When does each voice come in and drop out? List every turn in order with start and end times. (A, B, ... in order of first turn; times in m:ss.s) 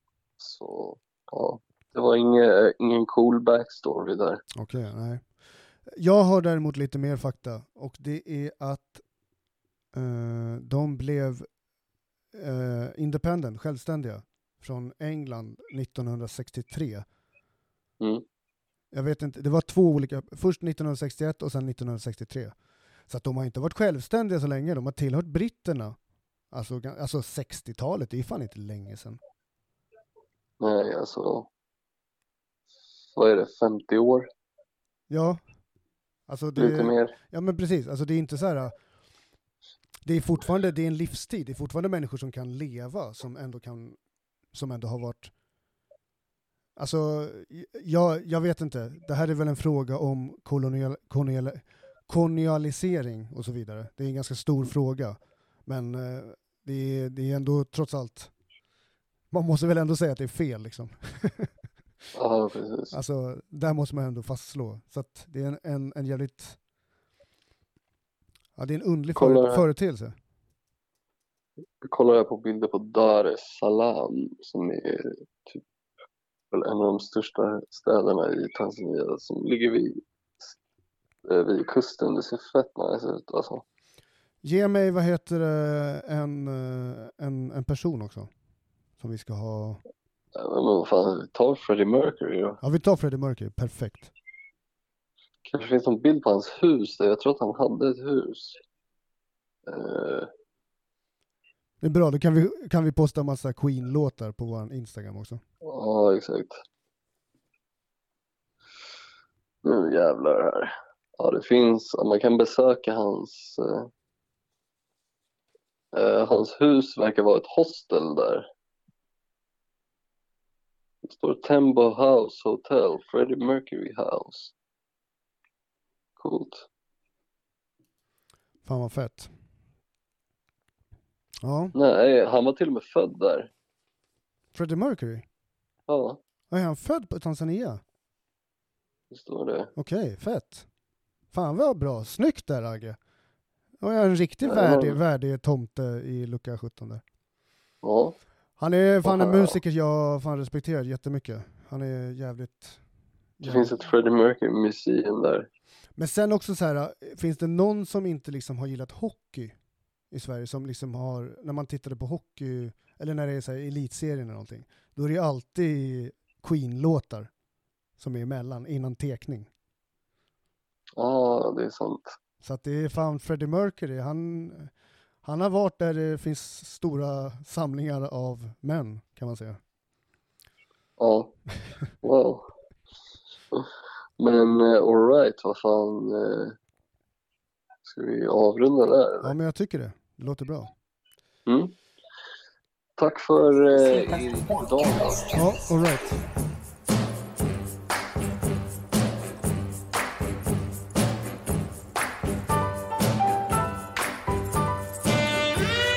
0:00.4-0:04.4 A
0:04.6-0:05.2 B
0:05.9-0:09.0 B
0:09.9-0:11.5 B
0:12.3-0:17.0 B
0:18.9-0:22.5 B
0:23.1-0:26.0 B
0:26.5-0:29.2 B
0:30.6-0:31.5 A
0:33.2-0:34.3 A
0:35.1-0:35.4 B
0:36.3-0:38.8 B
0:36.6-0:37.1 A
0:40.0-0:44.0 B
0:44.5-0:45.3 B
0:46.8-0:58.3 B
0:59.3-1:01.5 B
1:02.2-1:02.9 A
1:02.9-1:06.6 B
1:08.6-1:10.1 B
1:09.2-1:09.6 A
1:11.8-1:15.6 A
1:16.5-1:20.5 A
1:21.2-1:23.6 A
1:24.4-1:28.3 B
1:29.0-1:29.8 B
1:30.4-1:32.6 A
1:32.6-1:34.1 B
1:35.4-1:38.6 A
1:39.7-1:40.3 A
1:41.8-1:45.4 B
1:45.6-1:46.6 A
1:49.6-1:53.9 A
1:55.9-1:58.4 A
2:01.0-2:04.5 A
2:06.2-2:06.7 A
2:08.6-2:09.3 B
2:11.4-2:11.7 B
2:11.7-2:13.5 A
2:14.5-2:15.3 B
2:15.9-2:16.2 A
2:16.5-2:17.8 B
2:19.1-2:19.7 A
2:19.8-2:20.6 B
2:21.3-2:23.0 B
2:23.8-2:27.0 B
2:24.4-2:25.0 A
2:27.8-2:28.2 A
2:28.6-2:32.8 B
2:29.0-2:29.6 A
2:33.4-2:33.7 B
2:33.4-2:35.5 A
2:36.0-2:39.6 B
2:40.1-2:47.3 B
2:48.0-2:49.5 B
2:51.0-2:52.2 A
2:52.4-2:54.7 B
2:55.2-2:59.6 B
3:01.0-3:01.4 A
3:02.0-3:02.5 A
3:04.2-3:06.6 A
3:07.8-3:09.3 A
3:09.2-3:10.7 B
3:11.5-3:11.7 A
3:13.0-3:15.3 A
3:15.3-3:16.2 B